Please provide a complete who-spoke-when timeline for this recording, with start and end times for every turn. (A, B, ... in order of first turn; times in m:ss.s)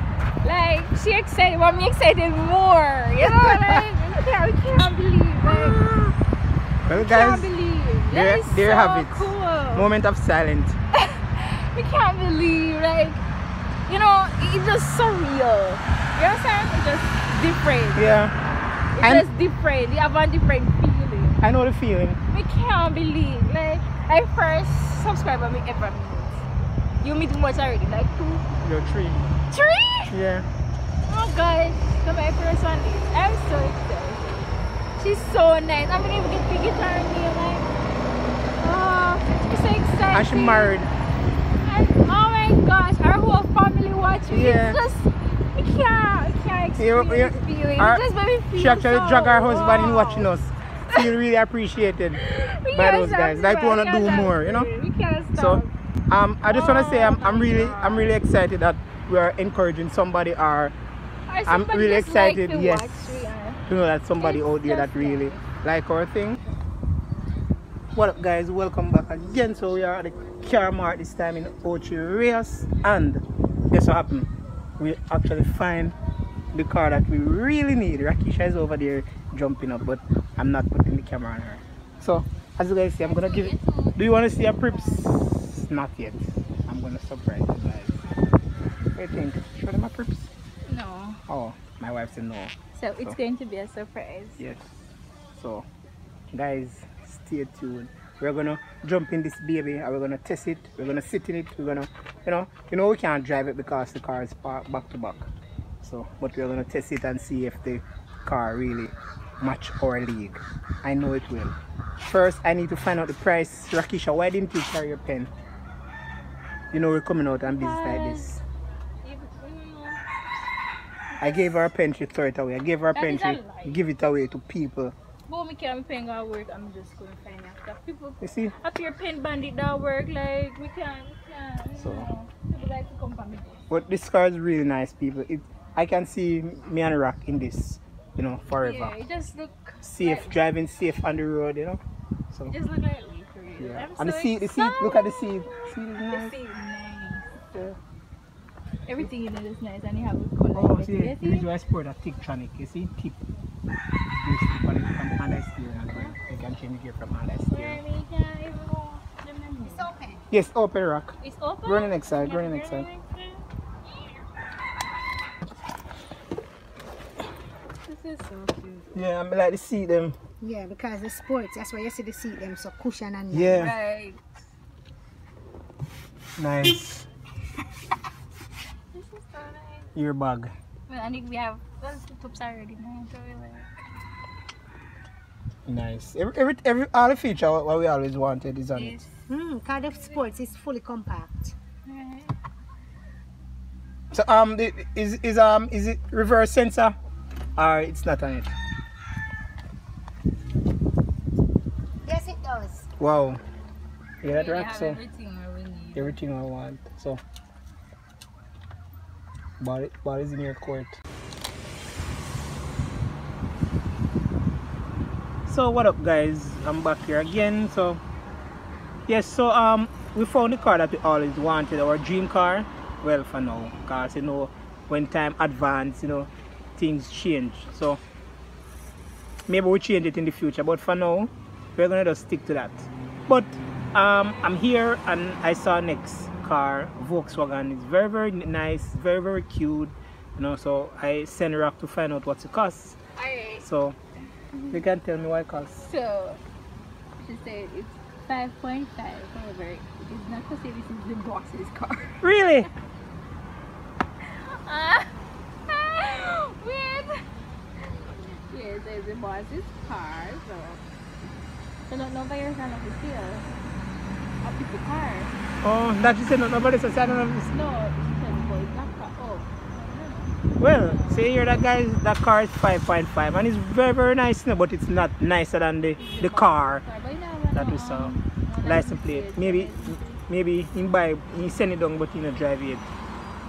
0:00.4-0:05.8 A
0:03.2-0:03.8 B
0:05.5-0:06.1 B
0:06.8-0:07.5 B
0:06.9-0:09.9 A
0:08.1-0:10.8 B
0:11.0-0:13.2 A
0:13.9-0:18.0 A
0:17.9-0:18.3 B
0:18.9-0:21.4 A
0:19.0-0:19.3 B
0:21.4-0:22.2 B
0:22.3-0:26.4 A
0:27.0-0:28.4 A
0:28.6-0:29.2 B
0:29.5-0:30.1 A
0:30.0-0:30.5 B
0:31.1-0:34.3 A
0:35.0-0:37.7 A
0:38.6-0:40.8 A
0:40.1-0:40.9 B
0:41.6-0:50.3 A
0:44.3-0:44.8 B
0:46.8-0:48.0 B
0:48.5-0:52.2 B
0:52.1-0:55.7 A
0:52.7-0:54.7 B
0:55.3-1:00.8 B
0:56.4-0:58.2 A
1:01.3-1:03.6 A
1:01.4-1:06.4 B
1:04.2-1:05.4 A
1:07.9-1:16.0 B
1:16.5-1:28.0 B
1:23.0-1:25.0 A
1:28.9-1:30.3 B
1:30.7-1:31.2 A
1:31.3-1:33.2 B
1:32.7-1:34.4 A
1:34.4-1:34.7 B
1:35.4-1:35.6 B
1:36.3-1:55.3 B
1:56.7-1:58.4 B
1:57.4-1:58.4 A
1:59.0-2:00.0 A
2:01.2-2:01.5 A
2:01.2-2:04.9 B
2:02.9-2:03.8 A
2:05.3-2:13.6 A
2:08.2-2:08.5 B
2:11.8-2:12.1 B
2:13.7-2:18.9 B
2:18.6-2:20.4 A
2:19.8-2:22.5 B
2:22.5-2:27.3 A
2:23.6-2:26.4 B
2:27.5-2:27.8 B
2:28.8-2:31.5 A
2:30.5-2:33.2 B
2:34.2-2:37.8 B
2:37.5-2:39.9 A
2:39.6-2:40.2 C
2:40.3-2:41.1 B
2:41.2-2:43.4 A
2:41.6-2:42.9 B
2:47.9-2:49.0 A
2:48.9-2:50.1 B
2:50.4-2:53.7 C
2:53.3-2:53.7 B
2:53.4-2:54.2 A
2:56.4-2:57.1 B
2:58.9-2:59.9 A
2:59.9-3:00.5 B
3:00.9-3:03.7 A
3:05.6-3:09.0 B
3:08.7-3:09.3 A
3:09.3-3:11.5 C
3:11.8-3:12.3 A
3:14.1-3:16.9 B
3:17.6-3:18.5 B
3:22.0-3:22.8 C
3:23.0-3:23.4 B
3:24.2-3:25.0 B
3:24.2-3:26.2 A
3:25.9-3:27.2 B
3:29.6-3:31.0 B
3:35.5-3:38.0 B
3:39.1-3:48.0 B
3:49.5-4:03.0 B
4:03.2-4:03.7 A
4:03.6-4:04.0 B
4:04.5-4:04.8 A
4:04.7-4:05.9 B
4:05.8-4:06.4 A
4:07.2-4:12.2 A
4:12.2-4:12.7 B
4:14.2-4:15.1 A
4:15.7-4:17.2 A
4:17.8-4:20.8 A
4:21.9-4:23.4 A
4:24.4-4:25.3 A
4:25.6-4:27.5 B
4:27.5-4:31.3 A
4:30.6-4:36.8 B
4:36.0-4:40.1 A
4:37.5-4:42.9 B